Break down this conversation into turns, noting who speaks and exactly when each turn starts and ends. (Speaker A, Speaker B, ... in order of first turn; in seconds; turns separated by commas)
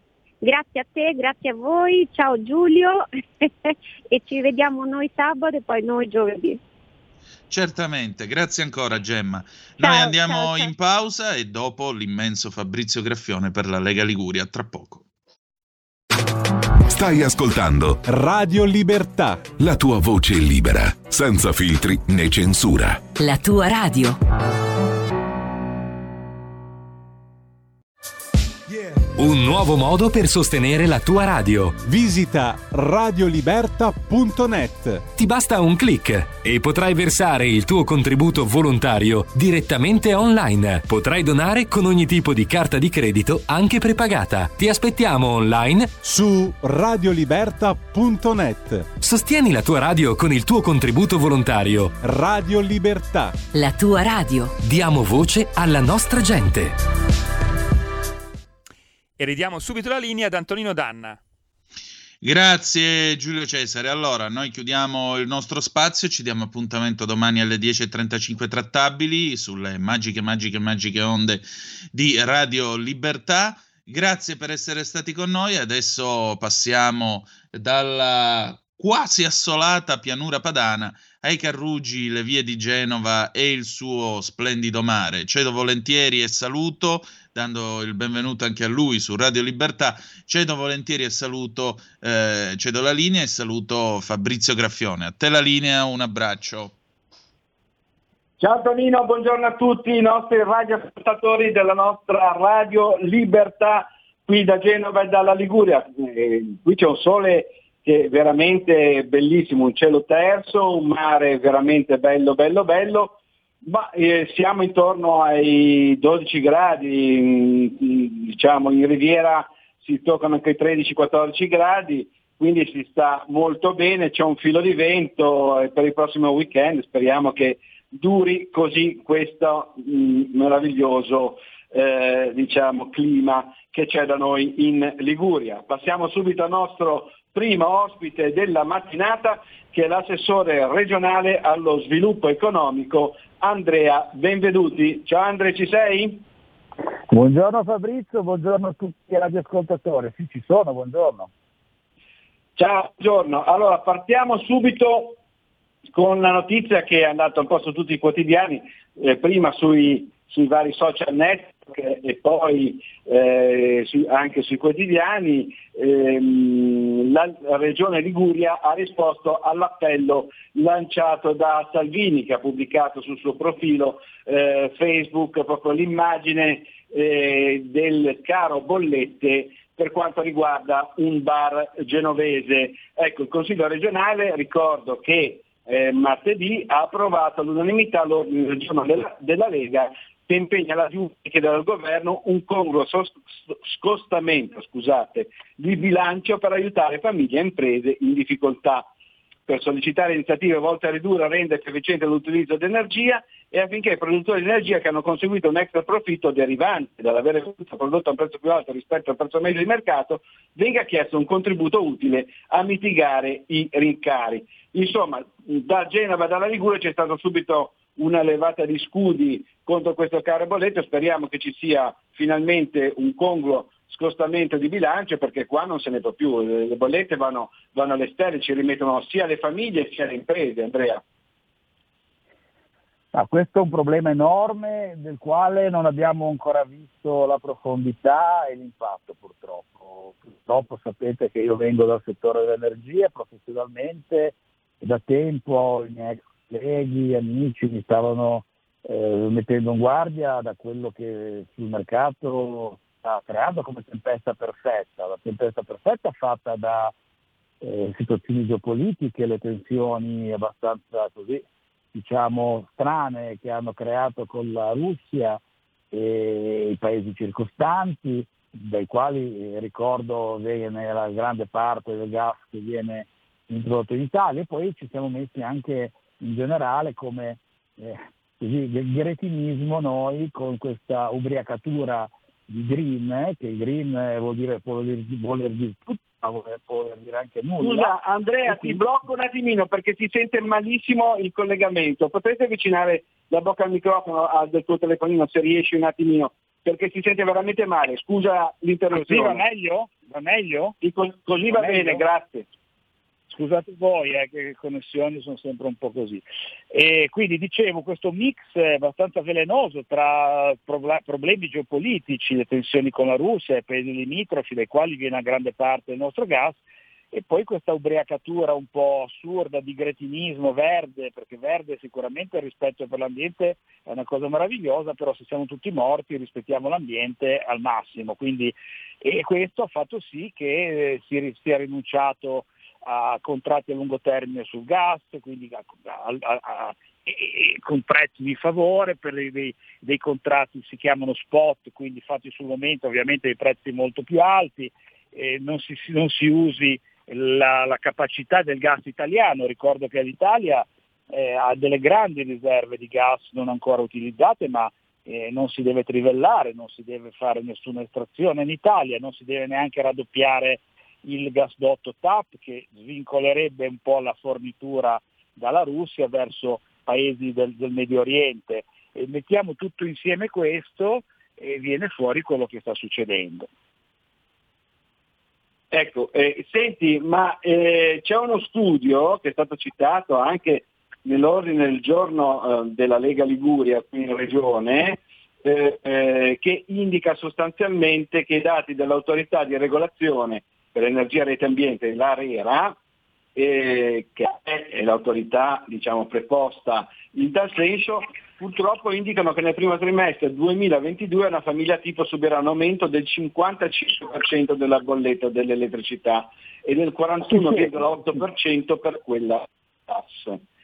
Speaker A: 0.4-6.6, Speaker B: 7.5-15.0, Speaker A: 9.8-10.7, Speaker C: 16.9-18.0, Speaker D: 18.1-19.6, Speaker C: 19.6-23.0, Speaker E: 23.1-24.2, Speaker D: 28.7-29.0, Speaker F: 29.1-31.8, Speaker D: 31.8-35.1, Speaker F: 35.1-46.0, Speaker D: 46.0-48.9, Speaker F: 49.0-51.9, Speaker D: 52.0-53.4, Speaker E: 53.5-54.6, Speaker F: 54.6-56.8, Speaker G: 59.2-61.2, Speaker B: 62.2-96.7, Speaker H: 98.4-146.2, Speaker I: 147.1-151.3, Speaker H: 152.6-155.2, Speaker H: 155.9-198.8, Speaker H: 199.5-231.0, Speaker I: 233.1-256.9, Speaker I: 257.6-265.4, Speaker I: 265.9-287.9, Speaker H: 287.6-299.4, Speaker I: 288.4-288.8, Speaker I: 298.9-300.8, Speaker H: 300.8-302.5, Speaker I: 301.4-302.0, Speaker I: 303.3-316.6, Speaker I: 317.1-373.5, Speaker H: 375.7-392.8, Speaker H: 393.4-410.4, Speaker I: 407.3-407.7